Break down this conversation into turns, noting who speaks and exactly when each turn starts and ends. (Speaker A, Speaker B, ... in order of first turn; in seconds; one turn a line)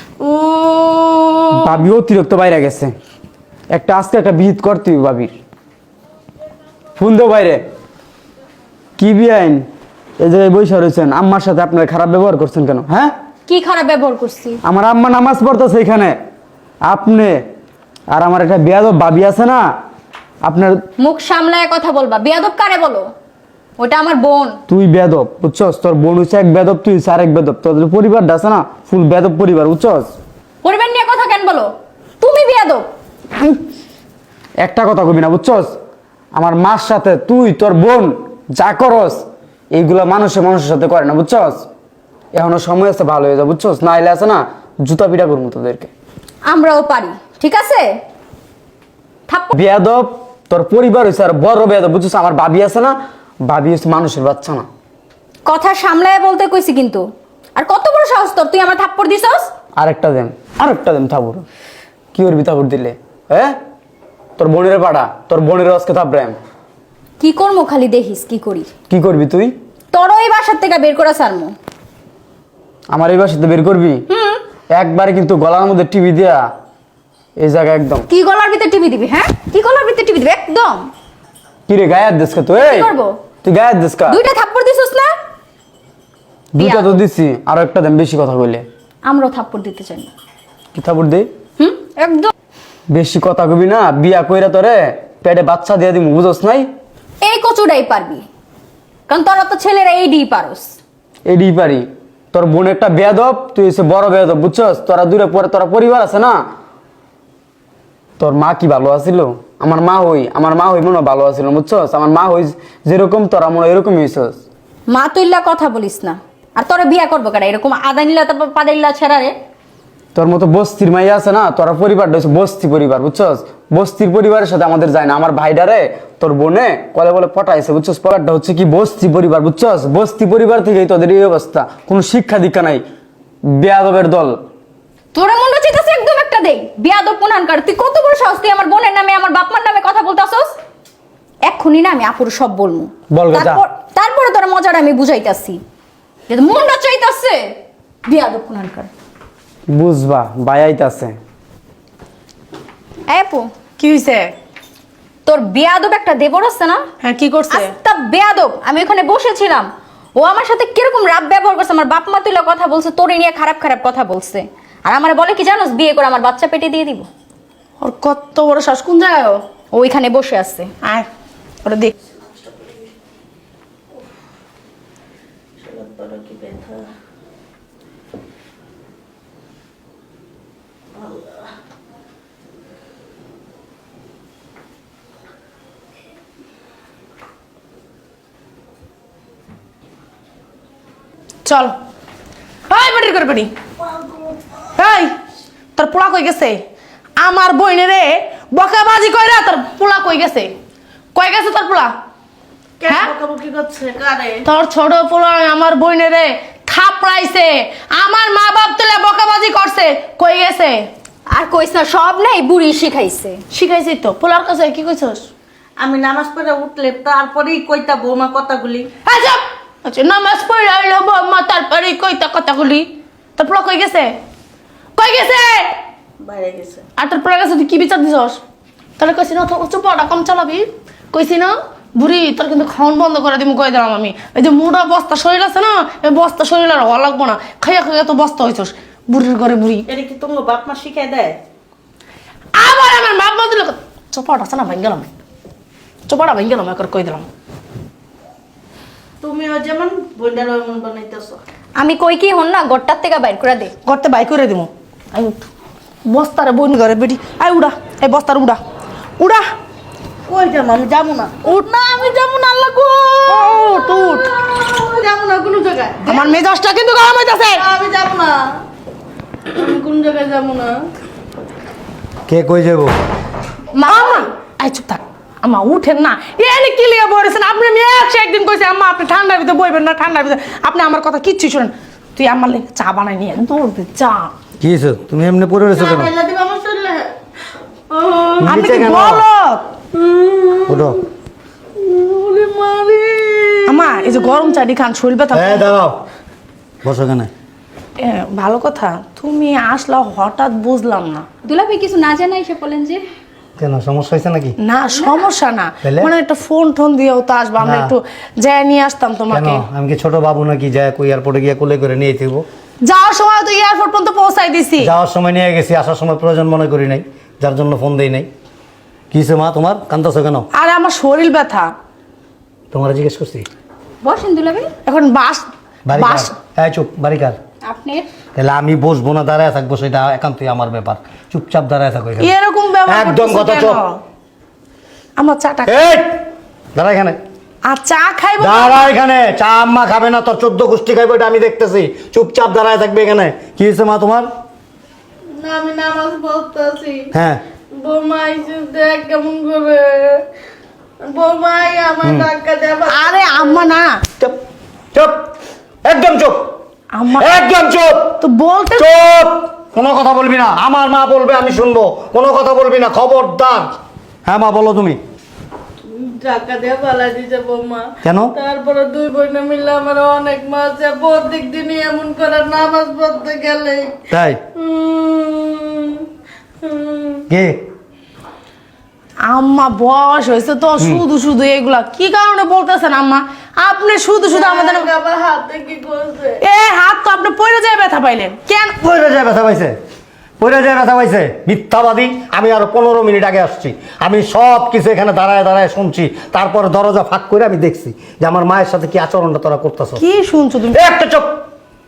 Speaker A: 0.2-1.6
Speaker B: 1.6-2.9
Speaker B: 3.7-5.3
Speaker B: 7.0-7.6
Speaker B: 9.0-9.7
Speaker B: 10.2-13.1
Speaker C: 13.5-14.6
Speaker B: 14.6-16.1
Speaker B: 16.8-17.4
Speaker B: 18.1-19.7
Speaker B: 20.4-20.8
Speaker C: 21.0-23.1
Speaker C: 23.8-24.6
Speaker B: 24.7-30.1
Speaker C: 30.6-32.9
Speaker B: 34.6-35.7
Speaker B: 36.3-41.6
Speaker B: 42.3-45.9
Speaker C: 46.5-47.9
Speaker C: 49.3-49.6
Speaker B: 49.5-54.6
Speaker C: 55.5-59.5
Speaker B: 59.8-61.5
Speaker B: 62.1-63.5
Speaker B: 64.4-66.4
Speaker C: 67.2-68.7
Speaker B: 68.9-69.5
Speaker C: 69.9-71.5
Speaker B: 72.9-74.0
Speaker C: 74.1-74.4
Speaker B: 74.7-76.5
Speaker B: 77.4-78.0
Speaker C: 78.1-80.9
Speaker B: 81.7-82.9
Speaker C: 82.6-83.2
Speaker B: 83.4-84.2
Speaker C: 84.1-85.1
Speaker B: 86.5-88.6
Speaker C: 86.6-87.0
Speaker C: 89.0-90.1
Speaker B: 90.7-91.3
Speaker C: 91.6-92.3
Speaker B: 92.9-96.7
Speaker C: 97.2-98.2
Speaker C: 99.1-100.7
Speaker B: 101.2-106.3
Speaker B: 108.2-114.4
Speaker C: 114.9-119.3
Speaker B: 120.1-132.8
Speaker B: 133.5-134.4
Speaker C: 135.1-140.5
Speaker C: 141.4-145.6
Speaker B: 143.1-143.6
Speaker C: 146.3-147.5
Speaker C: 148.0-148.9
Speaker B: 149.7-151.2
Speaker C: 153.1-153.5
Speaker D: 153.8-154.3
Speaker C: 155.2-156.8
Speaker D: 157.0-157.7
Speaker C: 157.5-167.1
Speaker D: 167.8-169.4
Speaker C: 169.7-170.7
Speaker D: 171.6-171.9
Speaker A: 175.7-176.8
Speaker A: 181.0-181.4
Speaker D: 191.4-191.8
Speaker D: 192.7-193.5
Speaker D: 194.7-195.1
Speaker D: 195.8-196.6
Speaker D: 197.2-200.5
Speaker D: 201.1-201.9
Speaker E: 202.8-204.4
Speaker D: 202.9-203.1
Speaker D: 204.4-210.9
Speaker C: 211.3-213.4
Speaker D: 213.5-215.2
Speaker E: 215.8-218.9
Speaker D: 219.0-224.2
Speaker D: 225.0-225.8
Speaker E: 226.2-226.8
Speaker D: 227.0-228.4
Speaker D: 229.0-239.8
Speaker E: 239.9-241.3
Speaker D: 242.5-245.1
Speaker D: 246.1-247.2
Speaker E: 249.2-251.4
Speaker C: 251.8-253.7
Speaker D: 253.8-255.5
Speaker D: 256.1-258.6
Speaker D: 259.2-259.4
Speaker E: 260.3-262.6
Speaker A: 262.1-265.0
Speaker D: 263.3-264.3
Speaker E: 265.0-266.1
Speaker D: 266.1-267.6
Speaker A: 267.8-268.4
Speaker E: 267.9-268.4
Speaker A: 269.5-270.7
Speaker E: 269.9-270.6
Speaker A: 272.3-272.9
Speaker C: 273.7-274.1
Speaker D: 273.9-284.3
Speaker A: 284.6-287.1
Speaker E: 285.8-286.1
Speaker A: 287.9-289.2
Speaker D: 288.4-289.6
Speaker A: 289.9-291.0
Speaker A: 291.8-294.4
Speaker D: 293.7-295.7
Speaker A: 295.3-296.0
Speaker A: 296.8-297.3
Speaker D: 298.0-301.2
Speaker C: 301.4-303.0
Speaker A: 303.6-304.6
Speaker D: 304.6-309.6
Speaker C: 304.9-305.2
Speaker A: 305.8-306.1
Speaker A: 307.6-307.9
Speaker A: 309.3-312.4
Speaker D: 312.8-314.9
Speaker A: 314.8-318.3
Speaker A: 319.1-320.5
Speaker D: 320.5-321.7
Speaker A: 322.7-323.5
Speaker C: 324.0-324.7
Speaker D: 324.8-326.3
Speaker A: 325.9-327.4
Speaker C: 327.6-328.1
Speaker A: 328.4-332.3
Speaker D: 332.2-334.0
Speaker A: 332.9-333.8
Speaker D: 335.2-335.8
Speaker A: 335.6-336.2
Speaker A: 336.7-337.2
Speaker D: 337.6-338.9
Speaker A: 338.4-344.3
Speaker A: 345.4-350.2
Speaker A: 351.0-353.6
Speaker D: 352.9-353.9
Speaker A: 354.9-355.2
Speaker A: 355.8-356.4
Speaker D: 356.9-357.4
Speaker A: 357.1-358.2
Speaker D: 358.2-358.9
Speaker A: 358.8-363.7
Speaker A: 364.2-365.0
Speaker A: 365.9-376.0
Speaker A: 376.6-377.6
Speaker D: 379.2-384.9
Speaker A: 384.3-386.4
Speaker D: 386.4-388.8
Speaker A: 388.8-389.8
Speaker A: 390.4-400.0
Speaker D: 400.0-400.8
Speaker A: 400.7-401.4